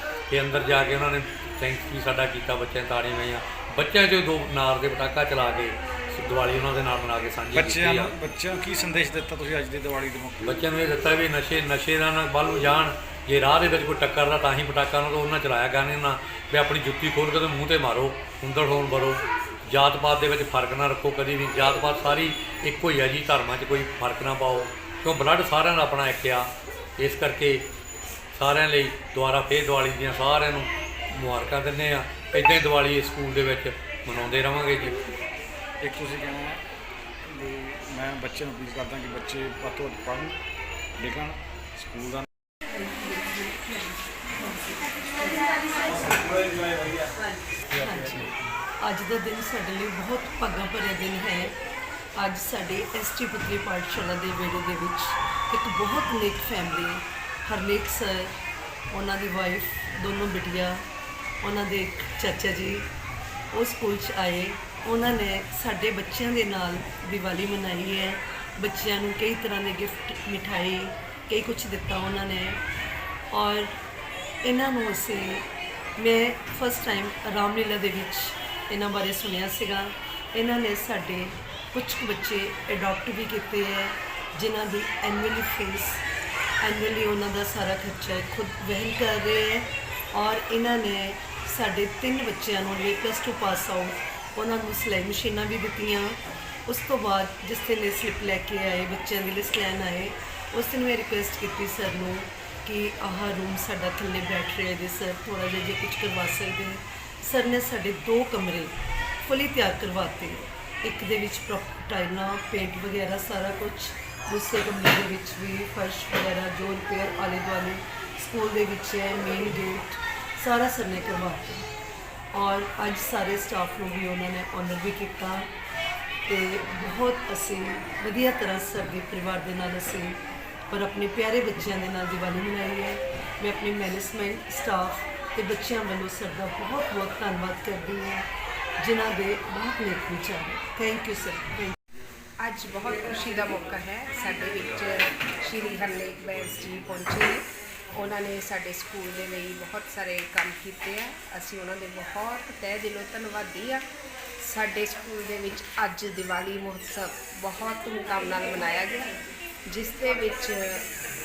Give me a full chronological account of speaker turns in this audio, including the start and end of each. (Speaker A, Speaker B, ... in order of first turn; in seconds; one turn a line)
Speaker A: 0.3-8.2
Speaker B: 7.5-10.6
Speaker A: 10.4-27.7
Speaker A: 28.3-35.0
Speaker B: 35.8-36.6
Speaker B: 37.3-40.4
Speaker B: 41.0-42.3
Speaker C: 42.8-43.6
Speaker C: 44.9-46.0
Speaker B: 46.1-47.1
Speaker C: 47.7-51.6
Speaker C: 52.2-58.4
Speaker C: 58.9-60.9
Speaker C: 61.4-62.9
Speaker C: 63.5-72.6
Speaker C: 73.3-73.8
Speaker C: 74.4-86.0
Speaker C: 86.6-121.7
Speaker C: 122.3-125.5
Speaker C: 126.3-141.8
Speaker D: 142.4-153.8
Speaker D: 154.4-160.9